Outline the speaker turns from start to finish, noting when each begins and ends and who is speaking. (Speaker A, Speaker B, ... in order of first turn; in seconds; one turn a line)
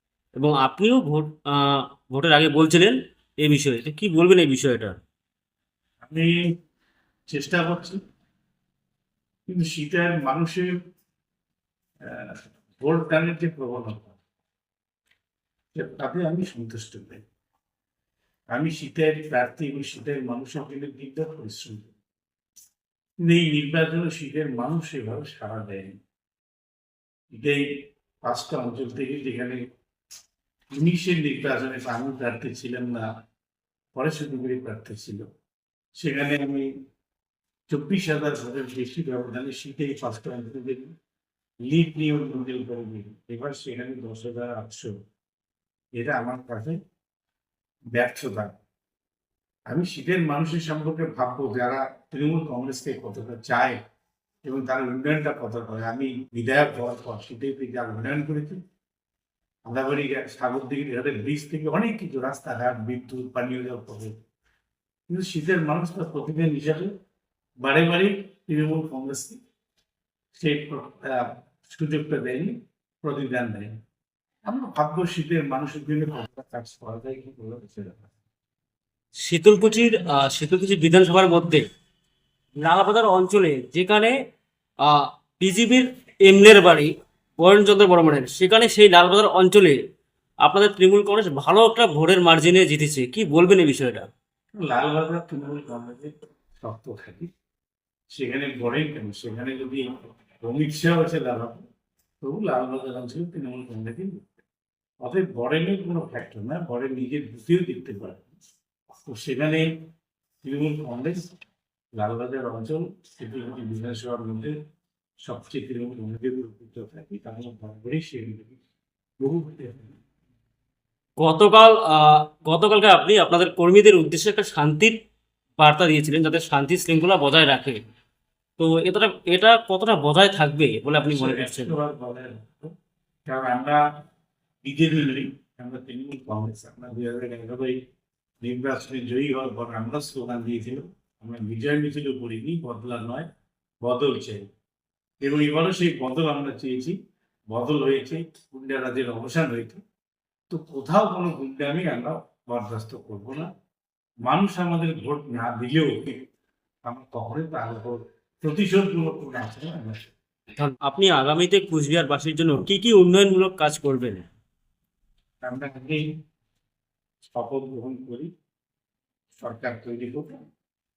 Speaker A: 0.3-5.0
Speaker B: 6.0-6.3
Speaker B: 7.3-8.0
Speaker B: 9.5-10.8
Speaker B: 12.1-14.2
Speaker B: 15.8-17.2
Speaker B: 18.5-21.9
Speaker B: 23.2-26.0
Speaker B: 27.3-29.6
Speaker B: 30.8-33.1
Speaker B: 33.9-35.3
Speaker B: 36.0-36.7
Speaker B: 37.7-40.9
Speaker B: 41.6-45.0
Speaker B: 46.0-46.8
Speaker B: 47.9-48.6
Speaker B: 49.7-53.8
Speaker B: 54.5-58.6
Speaker B: 59.7-64.2
Speaker B: 65.1-66.9
Speaker B: 67.6-69.4
Speaker B: 70.4-73.7
Speaker B: 74.5-78.1
Speaker A: 79.2-81.7
Speaker A: 82.6-84.2
Speaker A: 84.8-89.8
Speaker A: 90.4-94.1
Speaker B: 94.6-97.3
Speaker B: 98.1-99.8
Speaker B: 100.4-101.6
Speaker B: 102.2-104.2
Speaker B: 105.0-108.3
Speaker B: 109.0-109.7
Speaker B: 110.4-111.3
Speaker B: 112.0-114.5
Speaker B: 115.3-118.6
Speaker B: 119.2-120.0
Speaker A: 121.2-125.0
Speaker A: 125.6-127.8
Speaker A: 128.6-131.8
Speaker B: 131.0-132.7
Speaker B: 133.3-133.8
Speaker B: 134.6-137.8
Speaker B: 138.4-143.3
Speaker B: 143.8-144.5
Speaker B: 145.2-147.0
Speaker B: 147.5-149.8
Speaker B: 150.5-153.5
Speaker B: 154.3-156.3
Speaker B: 156.8-160.1
Speaker A: 160.6-164.3
Speaker B: 165.4-166.1
Speaker B: 167.3-168.3
Speaker B: 169.4-170.3